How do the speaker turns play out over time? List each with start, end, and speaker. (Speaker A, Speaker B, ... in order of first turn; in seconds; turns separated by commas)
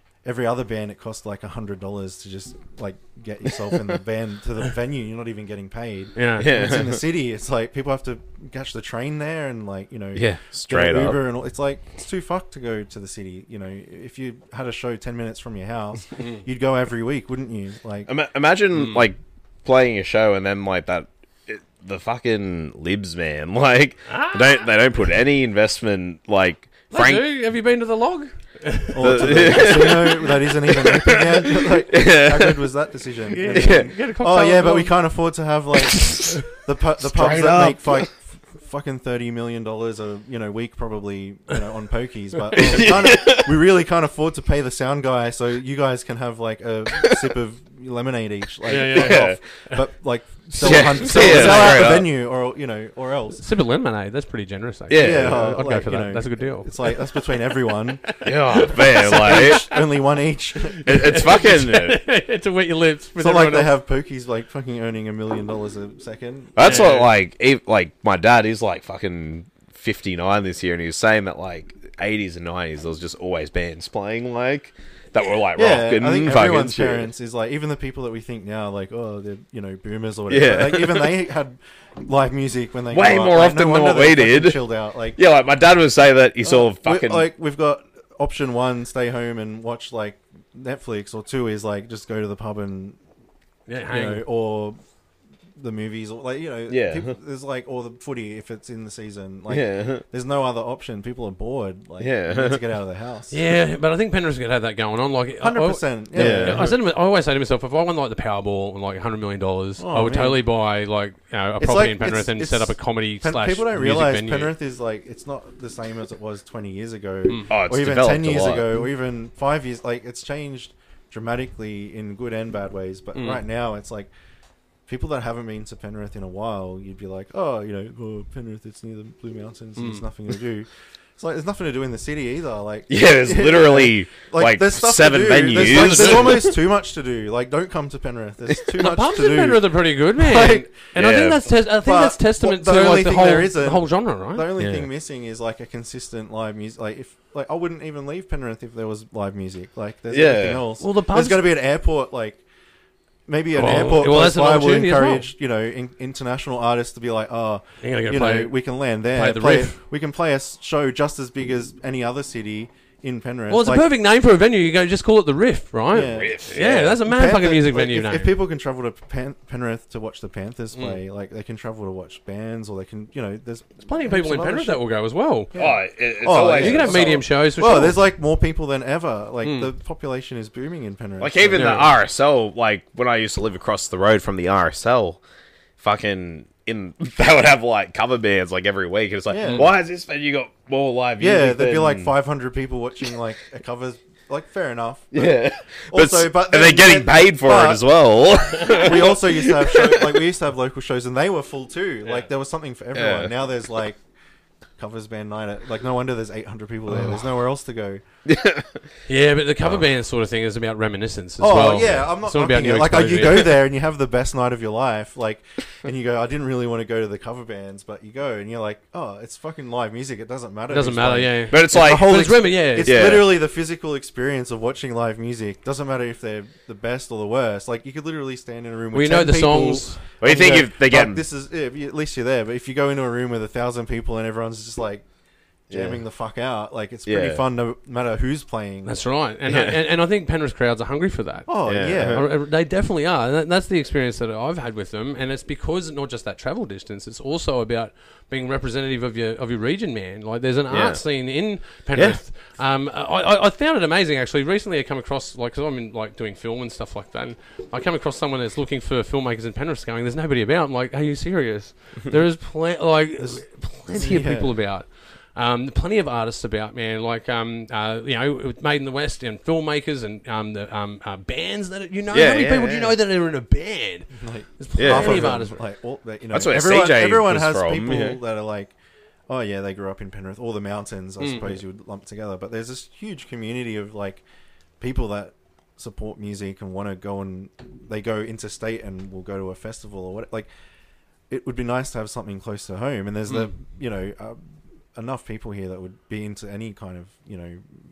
Speaker A: 0.2-18.1, Speaker B: 6.2-6.6, Speaker C: 6.4-7.0, Speaker C: 10.2-11.2, Speaker C: 18.1-27.3, Speaker B: 18.8-19.1, Speaker B: 24.1-24.6, Speaker B: 26.9-30.2, Speaker A: 28.9-53.4, Speaker C: 29.0-32.6, Speaker B: 33.3-35.0, Speaker C: 33.5-33.9, Speaker B: 36.1-36.5, Speaker C: 37.0-38.1, Speaker C: 42.6-43.5, Speaker C: 47.0-47.3, Speaker B: 48.7-49.8, Speaker C: 48.8-49.4, Speaker C: 50.6-52.1, Speaker B: 50.6-51.9, Speaker B: 53.4-57.2, Speaker C: 54.9-55.5, Speaker A: 55.0-58.1, Speaker B: 58.1-59.8, Speaker C: 58.2-59.7, Speaker A: 58.7-61.3, Speaker B: 60.7-63.8, Speaker C: 60.9-62.0, Speaker A: 63.2-66.7, Speaker C: 66.6-77.1, Speaker B: 66.6-67.1, Speaker A: 75.6-85.2, Speaker C: 80.3-81.1, Speaker C: 82.9-84.6, Speaker C: 85.2-87.3, Speaker A: 86.4-93.0, Speaker B: 93.7-94.2, Speaker A: 93.9-94.8, Speaker A: 95.6-103.4, Speaker C: 96.7-97.2, Speaker C: 99.5-100.0, Speaker C: 102.0-102.6, Speaker B: 103.3-114.5, Speaker A: 105.4-106.7, Speaker C: 106.2-106.8, Speaker A: 109.8-110.4, Speaker A: 111.6-124.1, Speaker C: 117.5-118.8, Speaker B: 123.2-123.4, Speaker A: 124.9-139.7, Speaker B: 129.8-130.1, Speaker C: 132.9-136.6, Speaker B: 135.8-136.1, Speaker B: 138.8-144.5, Speaker A: 140.2-140.8, Speaker C: 140.9-141.4, Speaker A: 141.7-152.4, Speaker C: 144.6-144.9, Speaker C: 150.1-150.6, Speaker B: 150.8-151.5, Speaker A: 153.3-163.9, Speaker B: 153.5-155.3, Speaker B: 157.8-159.8, Speaker B: 163.5-168.3, Speaker A: 165.9-174.8, Speaker C: 166.0-167.0, Speaker B: 170.7-171.0, Speaker B: 173.9-175.5, Speaker A: 175.5-181.8, Speaker C: 175.6-177.2, Speaker B: 176.5-178.1, Speaker B: 179.4-179.7, Speaker C: 181.2-185.2, Speaker B: 181.5-181.9, Speaker C: 185.8-192.1, Speaker A: 189.3-189.7, Speaker B: 189.4-189.7, Speaker A: 191.2-197.8, Speaker C: 195.1-200.1, Speaker A: 198.5-204.0, Speaker C: 202.9-203.3, Speaker A: 204.8-208.0, Speaker C: 208.2-208.9, Speaker B: 209.1-213.6, Speaker A: 211.4-235.1, Speaker B: 220.7-223.2, Speaker C: 221.5-222.2, Speaker C: 222.8-223.3, Speaker B: 228.9-230.0, Speaker C: 230.2-231.2, Speaker A: 235.7-238.9, Speaker C: 235.7-236.0, Speaker C: 237.1-237.4, Speaker B: 238.8-275.6, Speaker C: 239.5-239.8, Speaker A: 241.5-242.3, Speaker C: 241.7-242.2, Speaker C: 250.7-251.1, Speaker C: 251.9-252.2, Speaker A: 263.9-264.5, Speaker C: 272.1-273.0, Speaker A: 274.1-278.7, Speaker C: 274.8-275.4, Speaker C: 276.3-278.2, Speaker A: 279.3-284.2, Speaker B: 281.2-281.6, Speaker A: 284.8-290.5, Speaker A: 291.3-294.4, Speaker A: 294.9-297.6